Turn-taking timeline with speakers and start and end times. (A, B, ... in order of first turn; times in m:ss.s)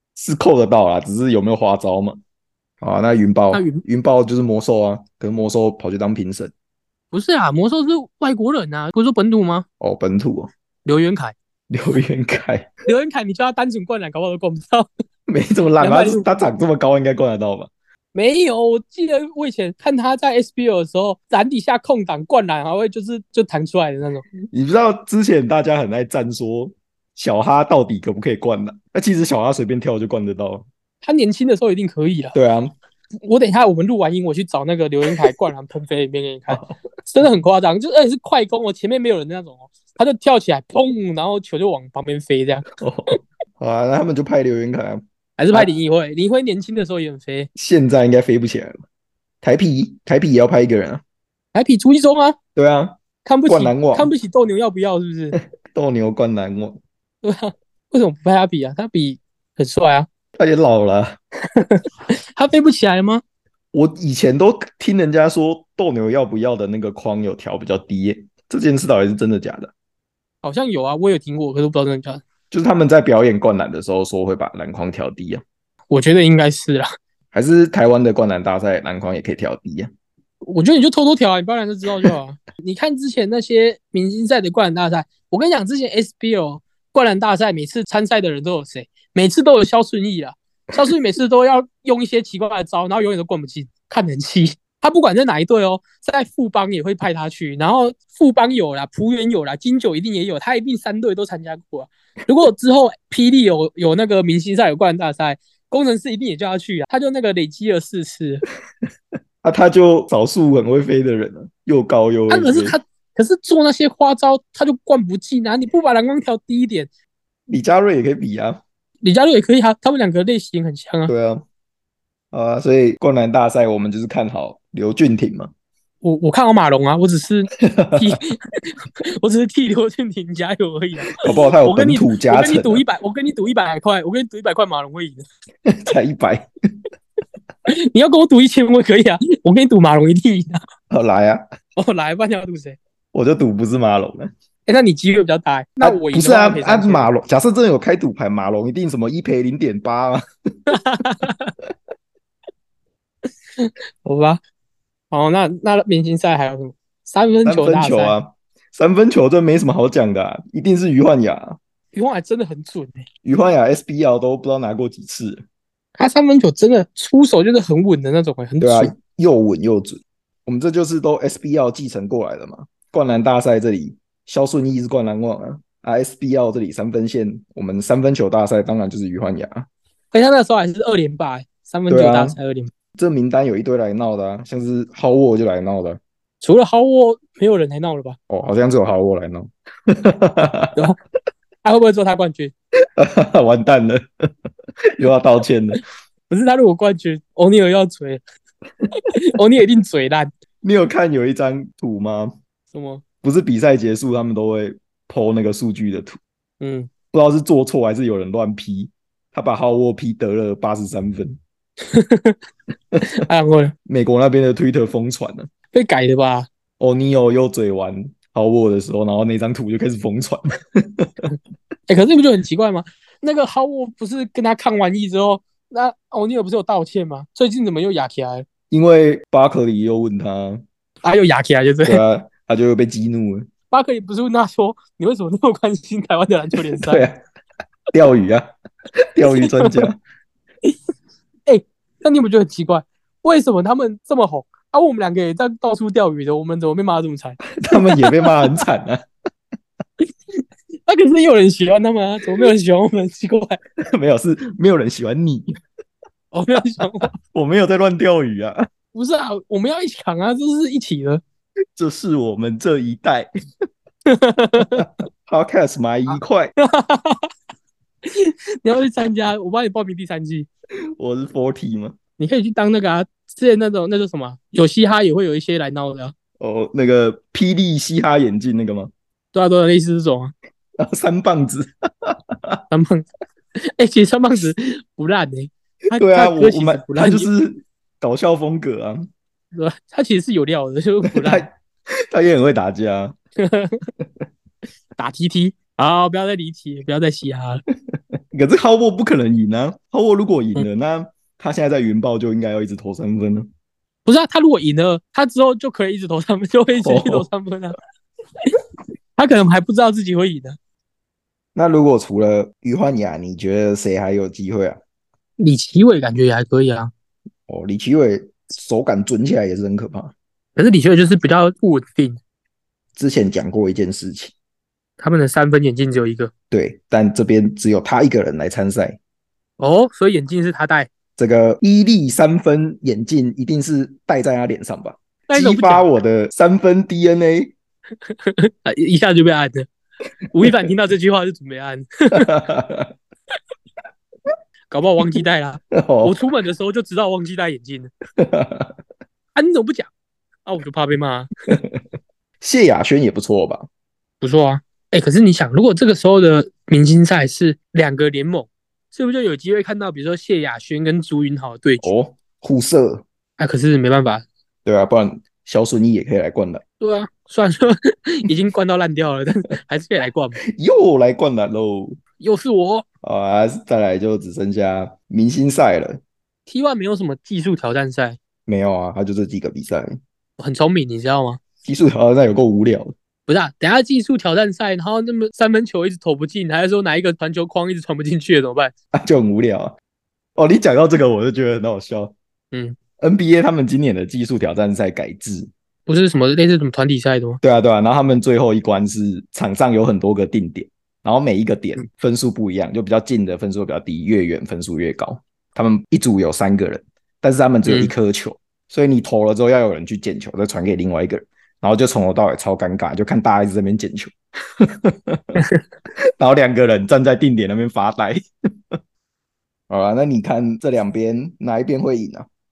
0:00.2-0:02.2 A
0:02.8-0:06.5 A
0:03.5-0:03.8 B
0:07.1-0:09.6 B
0:09.8-0:10.5 A
0:10.8-0:11.4 B
0:11.7-0:12.7 A
0:12.9-0:14.9 B
0:15.3-0:17.7 A
0:15.8-0:16.3 B
0:18.1-0:24.2 B
0:24.5-0:30.6 A
0:31.0-0:32.4 B
0:32.3-0:32.7 A
0:33.2-0:42.6 B
0:42.8-0:45.0 A
0:45.4-0:47.5 B
0:47.6-0:48.8 A
0:49.4-0:51.0 A
0:51.5-0:52.4 B
0:52.6-0:53.0 A
0:53.2-0:55.4 B
0:53.5-0:54.1 A
0:55.6-0:56.8 A
0:57.2-1:00.1 B
1:00.4-1:01.2 A
1:01.6-1:03.2 B
1:03.7-1:09.7 A
1:10.4-1:12.2 B
1:12.5-1:15.4 A
1:15.9-1:16.9 B
1:17.3-1:19.9 A
1:20.4-1:48.4 B
1:49.4-1:52.8 A
1:52.3-1:56.9 B
1:57.5-1:58.6 A
1:59.0-2:01.1 B
2:01.1-2:01.4 A
2:02.3-2:05.5 A
2:06.0-2:08.4 B
2:07.6-2:08.2 A
2:09.2-2:15.3 B
2:11.1-2:12.8 A
2:15.6-2:16.5 A
2:17.7-2:20.6 B
2:20.9-2:21.4 A
2:21.8-2:22.8 B
2:23.1-2:24.3 A
2:24.7-2:27.1 B
2:25.8-2:30.2 A
2:30.7-2:31.5 B
2:33.6-2:34.4 B
2:35.1-2:38.2 B
2:37.5-2:41.6 A
2:41.9-2:43.1 B
2:43.2-2:45.4 A
2:46.0-2:49.0 B
2:48.6-2:59.7 A
3:00.1-3:02.7 B
3:01.9-3:02.4 A
3:03.0-3:06.0 A
3:06.4-3:08.2 B
3:08.3-3:10.8 A
3:11.6-3:12.5 B
3:13.0-3:14.1 A
3:15.0-3:15.8 A
3:16.3-3:18.2 B
3:19.0-3:20.3 B
3:20.6-3:22.3 A
3:22.7-3:23.0 B
3:23.2-3:26.2 A
3:26.6-3:26.9 B
3:27.1-3:31.4 A
3:31.9-3:32.4 B
3:33.0-3:33.8 B
3:33.9-3:35.5 A
3:35.7-3:36.5 B
3:36.8-3:41.3 A
3:41.9-3:48.5 B
3:48.7-3:50.6 A
3:51.0-3:52.0 B
3:51.8-3:53.5 A
3:53.7-3:57.1 B
3:56.7-3:57.2 A
3:57.9-3:58.5 A
3:59.1-4:00.0 A
3:59.3-3:59.9 B
4:01.5-4:08.4 B
4:07.6-4:09.0 A
4:10.9-4:13.6 B
4:13.8-4:15.5 A
4:16.3-4:17.1 B
4:17.0-4:18.7 A
4:18.9-4:21.2 B
4:21.8-4:23.3 A
4:24.1-4:24.9 B
4:24.6-4:26.5 A
4:26.6-4:27.3 B
4:28.1-4:30.5 B
4:31.0-4:32.0 A
4:32.2-4:36.2 B
4:36.4-4:38.9 A
4:39.3-4:40.3 B
4:40.8-4:42.6 A
4:42.7-4:43.1 B
4:43.6-4:47.3 B
4:46.0-4:49.1 A
4:49.5-4:51.5 B
4:51.0-4:53.2 A
4:53.4-4:53.9 B
4:55.0-4:57.6 B
4:58.3-5:03.5 A
5:04.0-5:07.8 B
5:06.8-5:07.3 A
5:09.2-5:10.6 B
5:11.5-5:14.8 A
5:15.4-5:16.9 B
5:17.5-5:20.1 A
5:20.6-5:22.2 B
5:23.0-5:24.3 A
5:25.0-5:26.3 B
5:26.5-5:29.0 A
5:29.6-5:30.9 B
5:31.2-5:37.5 A
5:35.3-5:35.9 B
5:38.2-5:39.7 B
5:40.3-5:42.3 B
5:40.4-5:40.7 A
5:42.1-5:42.9 A
5:44.7-5:47.9 B
5:45.7-5:46.2 A
5:48.2-5:48.7 A
5:49.3-5:49.9 B
5:50.5-5:51.3 B
5:51.5-5:51.8 A
5:52.4-5:53.7 A
5:54.2-6:01.9 B
6:01.8-6:03.0 A
6:03.4-6:04.2 B
6:04.6-6:06.6 A
6:06.8-6:10.4 B
6:10.5-6:12.0 A
6:12.2-6:12.8 B
6:13.0-6:16.0 A
6:16.5-6:18.2 B
6:18.5-6:20.0 A
6:20.4-6:21.4 B
6:21.6-6:22.9 A
6:23.3-6:28.7 B
6:28.9-6:29.8 A
6:30.4-6:32.1 A
6:32.5-6:32.8 B
6:33.0-6:35.5 A
6:35.9-6:37.4 B
6:37.4-6:55.4 A
6:47.7-6:47.9 B
6:56.2-6:58.2 A
6:59.7-7:02.3 A